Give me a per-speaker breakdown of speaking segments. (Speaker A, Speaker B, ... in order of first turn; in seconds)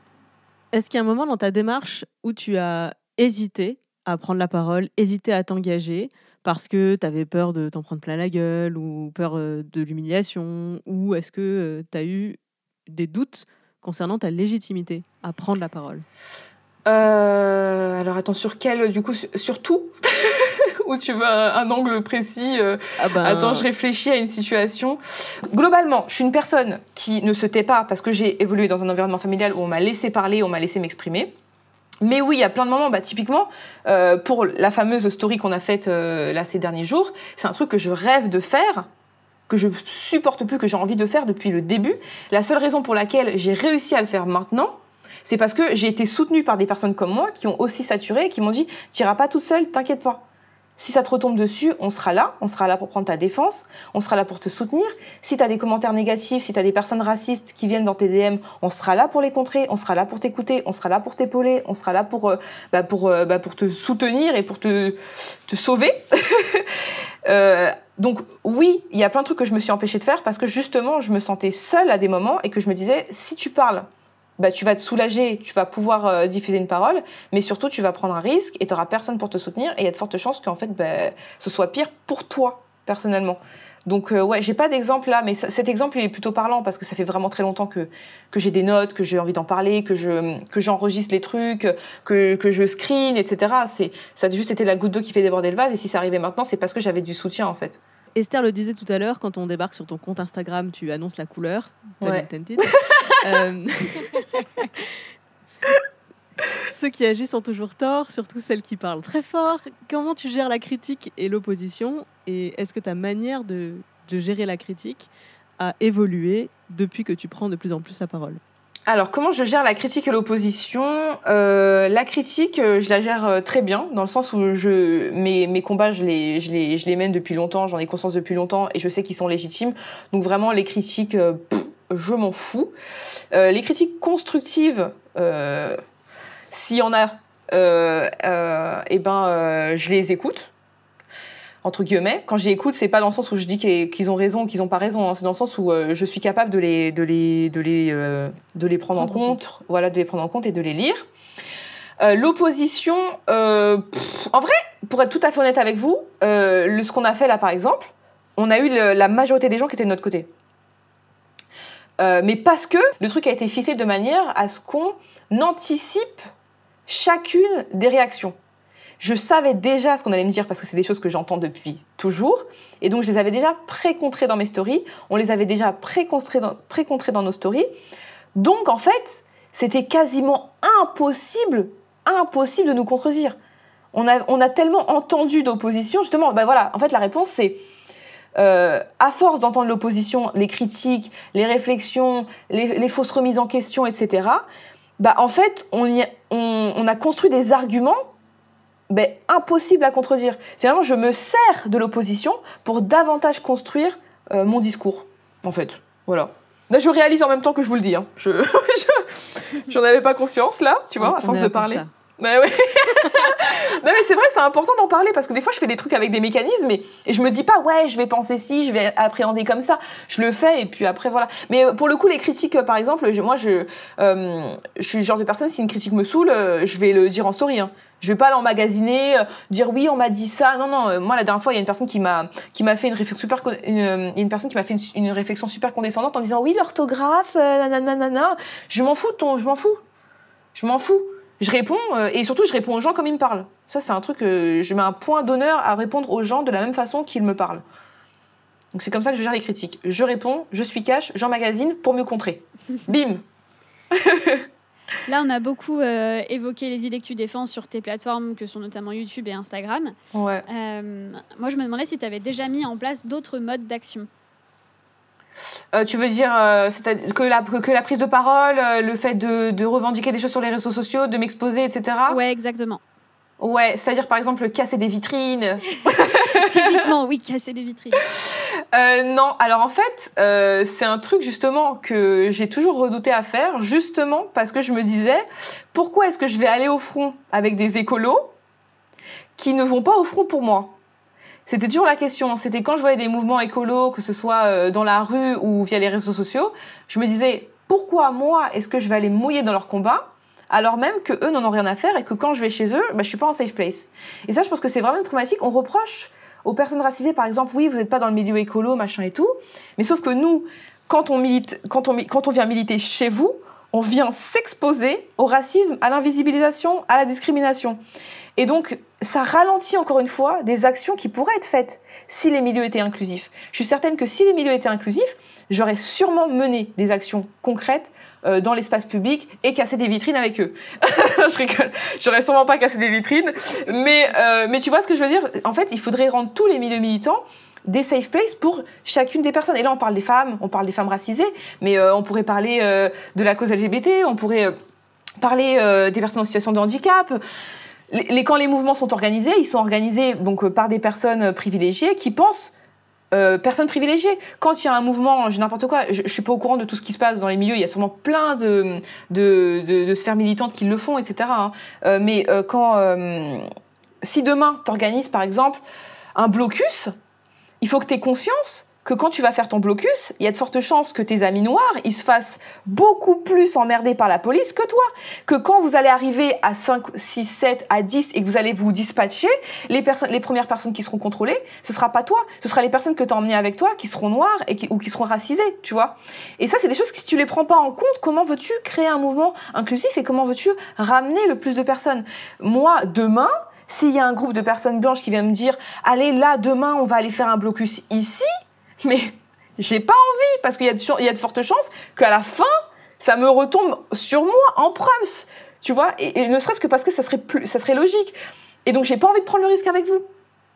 Speaker A: 0.7-16.0, 23.0-23.7, 98.1-104.9, 106.7-118.4, 149.0-149.4, 211.0-211.9
Speaker B: 16.9-31.3, 32.0-38.9, 39.5-50.2, 50.8-97.8, 102.0-102.9, 118.9-132.7, 133.3-135.8, 136.5-140.5, 141.6-151.0, 152.0-160.3, 162.0-166.2, 166.9-168.4, 169.0-177.7, 178.3-183.4, 183.9-187.7, 188.3-194.5, 195.0-198.1, 198.9-239.8, 240.5-247.6, 248.7-253.2, 253.9-254.4, 260.1-260.4, 265.7-272.2, 273.4-276.8, 278.2-288.3, 289.4-290.8, 291.4-317.8, 318.4-344.5, 345.2-347.2, 347.9-352.5, 353.1-363.4, 364.0-365.6, 366.1-366.9, 367.6-398.3, 398.8-410.1
Speaker C: 255.1-259.9, 260.5-264.1, 272.1-272.8, 276.3-278.0